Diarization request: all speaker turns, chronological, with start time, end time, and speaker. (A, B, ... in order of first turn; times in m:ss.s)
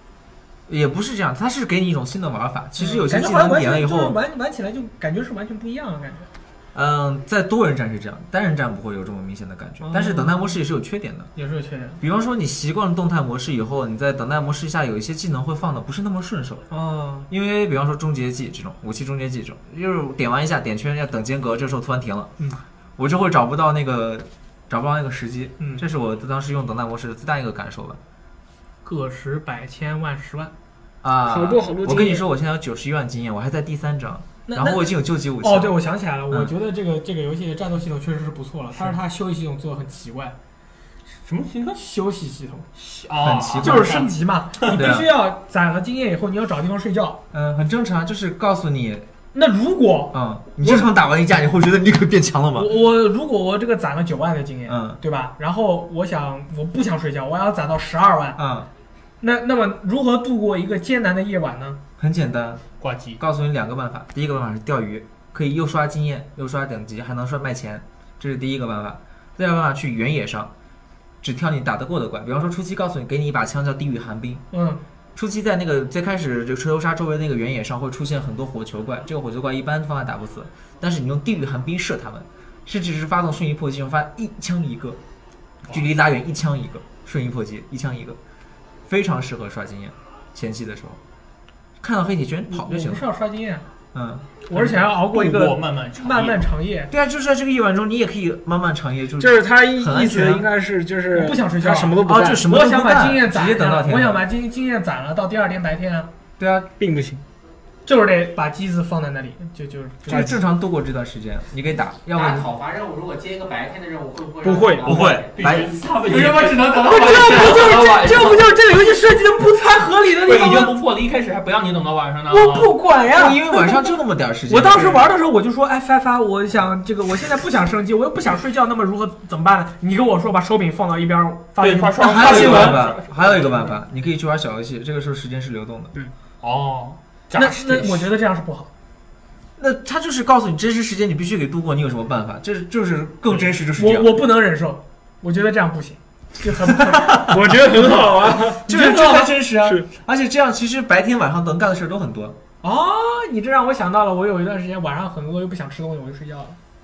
0:00.7-0:04.2 A
0:02.8-0:06.3 B
0:06.7-0:11.3 A
0:09.8-0:10.5 B
0:11.4-0:12.0 B
0:12.0-0:16.7 A
0:16.7-0:17.3 B
0:17.3-0:22.3 A
0:23.0-0:28.0 A
0:28.8-0:30.5 B
0:31.0-0:36.5 A
0:31.3-0:32.3 C
0:34.5-0:40.4 B
0:41.2-0:41.8 D
0:41.8-0:42.7 B
0:42.8-0:44.9 D
0:43.2-0:44.1 A
0:43.6-0:47.2 B
0:44.7-0:45.1 A
0:47.3-0:49.1 A
0:49.3-0:50.9 B
0:50.1-0:52.7 A
0:52.6-0:58.4 B
0:54.7-0:55.0 A
0:58.4-0:58.7 A
0:59.2-1:01.8 B
1:02.0-1:02.6 A
1:02.8-1:03.2 D
1:03.2-1:10.5 A
1:11.2-1:14.4 A
1:14.5-1:14.8 B
1:15.2-1:25.0 A
1:25.7-1:28.2 A
1:28.9-1:31.0 A
1:31.8-1:33.0 A
1:32.5-1:33.6 B
1:33.9-1:34.3 A
1:34.5-1:36.9 B
1:34.5-1:36.5 D
1:36.9-1:40.5 A
1:39.2-1:42.4 C
1:41.1-1:46.1 B
1:42.0-1:44.2 A
1:46.4-1:46.7 A
1:46.8-1:47.2 C
1:47.8-1:50.4 B
1:50.0-1:52.5 A
1:52.1-1:58.3 E
1:54.4-1:55.1 C
1:54.8-1:58.5 D
1:55.0-1:55.7 A
1:56.9-2:00.8 B
2:00.2-2:02.8 D
2:02.3-2:03.8 B
2:03.1-2:05.0 A
2:04.5-2:12.8 B
2:11.6-2:13.8 D
2:12.0-2:15.9 A
2:16.4-2:18.1 D
2:17.4-2:18.7 B
2:19.6-2:24.1 A
2:23.8-2:29.3 B
2:27.3-2:29.8 C
2:28.5-2:32.4 A
2:32.6-2:36.6 B